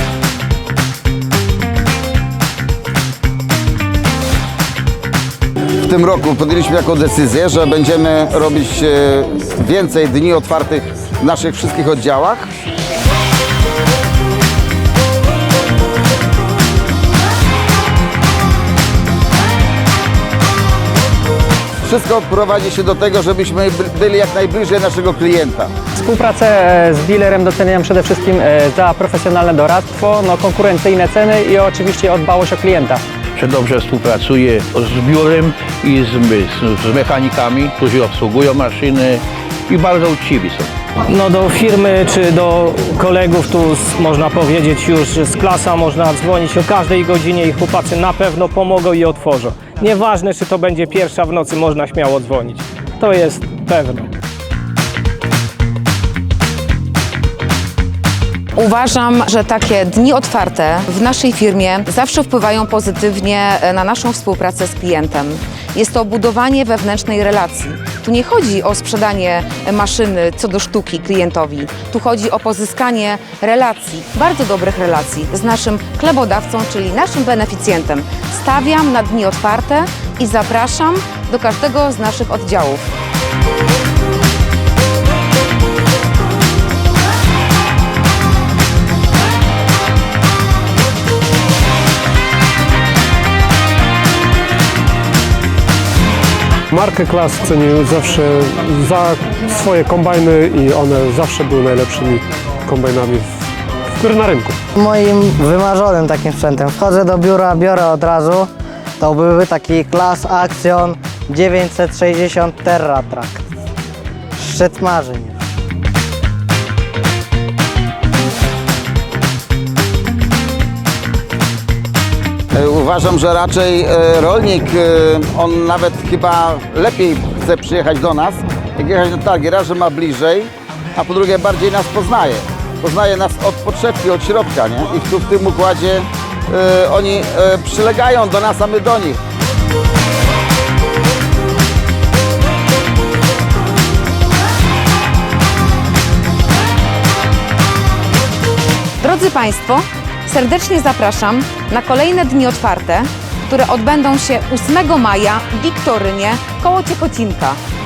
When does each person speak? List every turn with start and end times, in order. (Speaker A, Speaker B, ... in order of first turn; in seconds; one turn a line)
Speaker A: 5.8-12.5
Speaker A: 21.8-25.7
Speaker B: 26.0-33.0
Speaker C: 33.4-40.7
Speaker D: 41.1-54.1
Speaker E: 58.5-82.9
Speaker F: 96.7-103.3
Speaker F: 104.0-104.6
Speaker G: 104.8-113.5
Speaker G: 114.4-115.5
Speaker A: 122.5-139.2
Speaker E: 149.0-157.6